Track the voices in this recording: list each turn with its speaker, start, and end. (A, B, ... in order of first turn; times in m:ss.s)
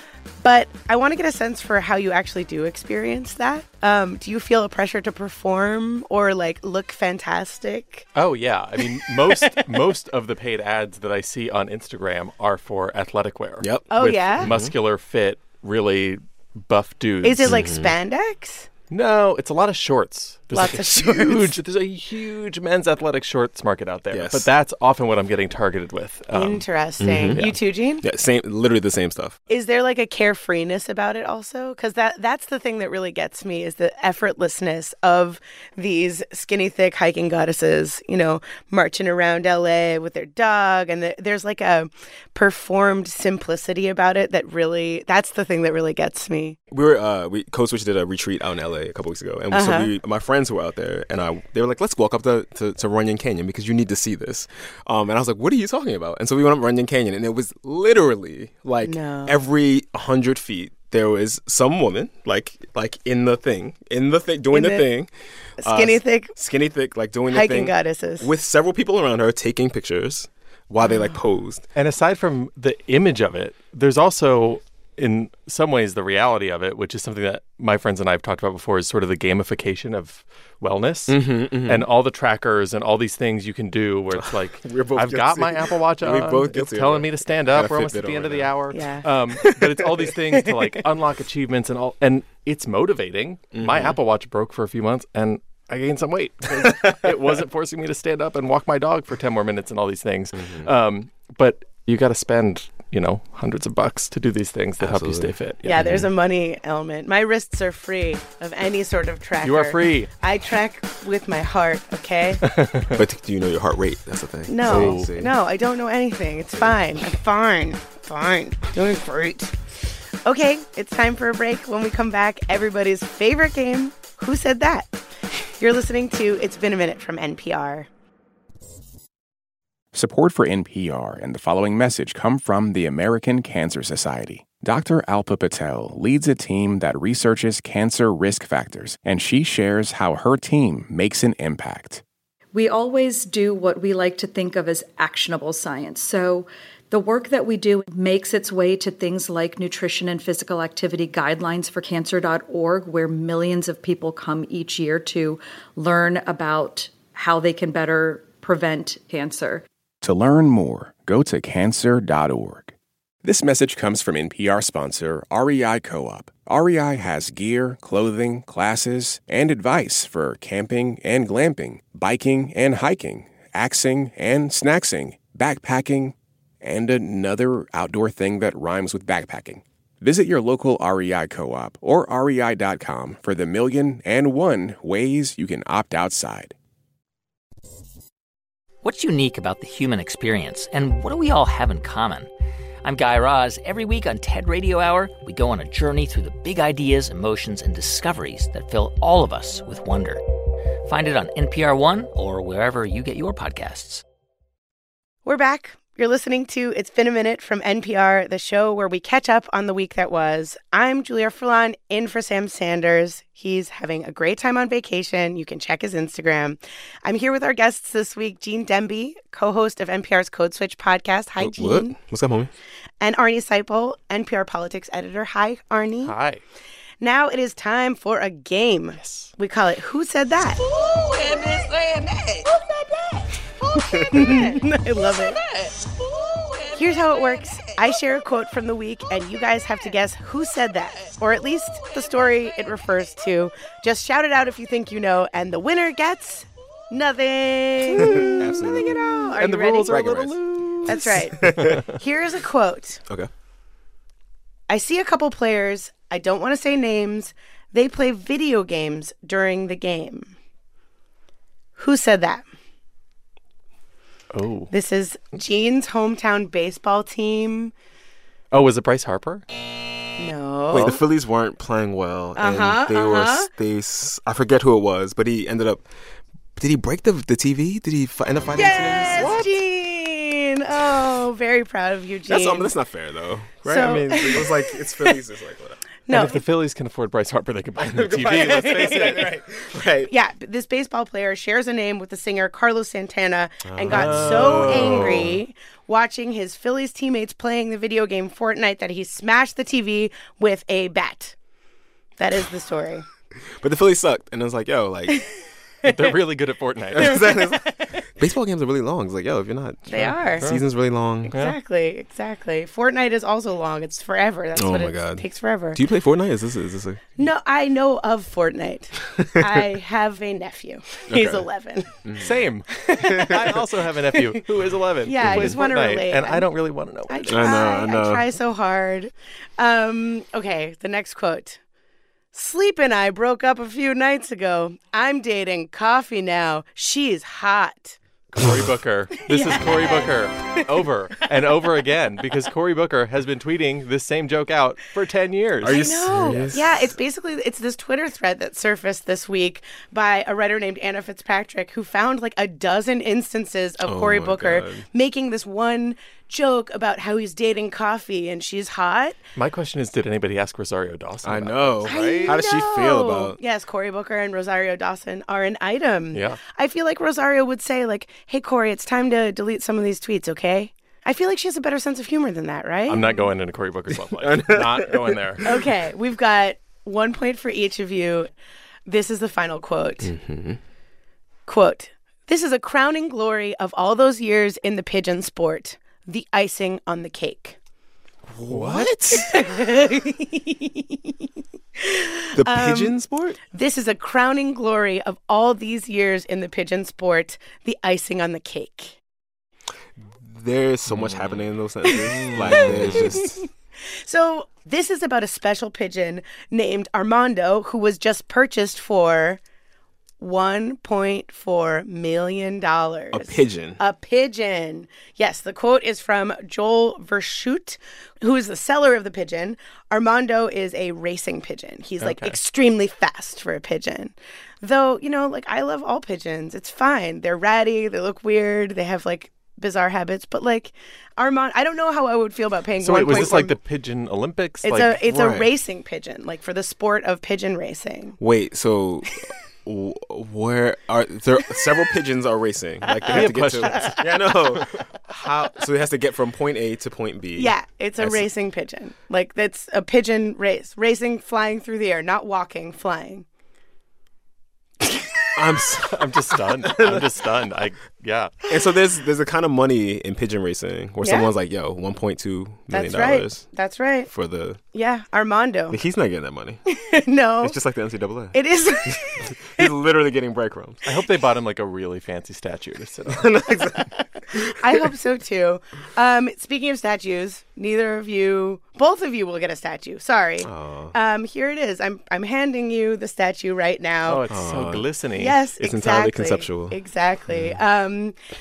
0:00.4-0:08.0 A
0:08.1-0:17.6 B
0:09.2-0:09.6 A
0:13.6-0:14.7 C
0:13.9-0:14.5 A
0:17.2-0:18.7 A
0:17.4-0:17.9 C
0:18.9-0:26.6 B
0:20.5-0:21.5 A
0:24.1-0:24.5 C
0:26.3-0:28.0 A
0:27.0-0:27.4 C
0:28.0-0:29.4 C
0:29.5-0:46.6 A
0:46.7-1:11.6 C
0:49.5-0:49.9 A
0:58.8-0:59.4 A
1:04.5-1:04.9 A
1:05.6-1:06.3 A
1:07.3-1:08.3 A
1:11.7-1:46.0 B
1:21.1-1:21.8 C
1:24.2-1:28.5 C
1:28.7-1:29.1 A
1:29.4-1:29.8 C
1:33.5-1:34.0 C
1:36.6-1:37.0 C
1:40.4-1:40.7 C
1:44.8-1:46.1 C
1:45.6-1:52.4 A
1:49.4-1:50.1 B
1:52.4-1:52.9 B
1:52.9-1:55.3 C
1:54.5-1:59.5 A
1:54.7-1:55.1 B
2:00.2-2:04.9 A
2:05.6-2:07.9 A
2:09.9-2:22.0 D
2:22.5-2:39.6 E
2:40.0-3:06.5 D
3:08.8-3:12.3 F
3:12.8-3:20.2 F
3:20.8-3:24.0 F
3:25.2-3:41.9 A
3:41.4-3:42.5 C
3:43.0-3:46.1 A
3:46.0-3:46.4 B
3:47.0-3:50.6 A
3:49.0-3:49.3 B
3:50.5-3:54.6 G
3:54.1-3:55.4 A
3:55.2-3:57.4 G
3:56.7-4:10.0 A
4:07.9-4:09.0 C
4:09.4-4:11.9 B
4:09.9-4:11.8 C
4:10.8-4:13.0 A
4:14.7-4:20.3 A
4:21.8-4:22.5 A
4:24.3-4:24.7 B
4:24.7-4:27.7 A
4:28.5-4:29.4 B
4:30.2-4:31.0 A
4:30.7-4:35.8 C
4:32.4-4:33.5 A
4:36.6-4:39.5 C
4:38.5-4:42.7 A
4:39.2-4:39.4 B
4:42.3-4:45.8 C
4:43.6-4:45.1 A
4:46.1-4:46.4 A
4:46.1-4:49.3 B
4:47.8-4:50.1 C
4:48.5-4:49.2 A
4:50.1-5:01.3 A
4:53.6-4:55.4 C
4:53.9-4:55.2 B
5:02.2-5:03.0 A
5:03.6-5:05.2 C
5:05.8-5:07.2 B
5:06.9-5:11.3 C
5:07.0-5:08.0 A
5:09.9-5:10.5 A
5:10.4-5:10.6 B
5:11.3-5:15.8 A
5:11.3-5:11.6 B
5:14.6-5:17.1 C
5:17.2-5:21.9 A
5:21.1-5:21.5 C
5:22.0-5:22.5 C
5:22.2-5:27.7 B
5:22.8-5:23.3 A
5:23.1-5:23.5 C
5:25.0-5:26.5 A
5:25.2-5:25.6 C
5:27.1-5:31.6 A
5:27.3-5:28.2 C
5:32.3-5:38.0 A
5:38.3-5:46.4 B
5:39.3-5:40.6 A
5:45.6-5:46.9 C
5:45.7-5:59.2 A
5:53.8-5:54.8 C
5:59.3-6:02.4 B
6:01.2-6:03.4 C
6:01.8-6:13.1 A
6:06.1-6:06.4 B
6:12.9-6:15.4 B
6:14.2-6:15.6 C
6:15.4-6:18.3 A
6:18.8-6:20.1 A
6:20.0-6:20.6 C
6:21.5-6:27.6 A
6:28.3-6:29.4 C
6:28.5-6:29.2 B
6:29.1-6:31.1 A
6:31.8-6:33.0 A
6:32.4-6:33.4 C
6:33.5-6:39.0 A
6:40.0-6:43.4 C
6:40.9-6:41.4 B
6:41.9-6:43.4 A
6:42.1-6:43.1 B
6:44.0-6:49.4 A
6:50.2-7:13.6 A
6:53.1-6:53.8 C
7:02.0-7:02.4 B
7:12.8-7:15.3 B
7:13.0-7:13.3 C
7:14.6-7:18.2 A
7:15.1-7:15.5 C
7:18.2-7:19.1 C
7:19.6-7:28.2 C
7:22.9-7:23.1 A
7:23.1-7:24.6 B
7:27.4-7:33.2 A
7:35.3-7:37.2 C
7:35.8-7:38.4 B
7:38.5-7:43.5 C
7:41.0-7:41.3 A
7:42.7-7:44.1 A
7:44.1-7:44.6 C
7:44.7-7:45.8 A
7:45.7-7:46.6 C
7:46.7-7:47.6 A
7:47.4-7:50.8 C
7:48.3-7:49.6 A
7:50.8-7:53.3 B
7:53.1-7:54.5 C
7:54.6-8:04.2 A
8:00.4-8:00.9 C
8:04.1-8:05.4 B
8:04.3-8:04.8 C
8:05.2-8:08.2 A
8:05.6-8:06.8 C
8:07.3-8:07.6 C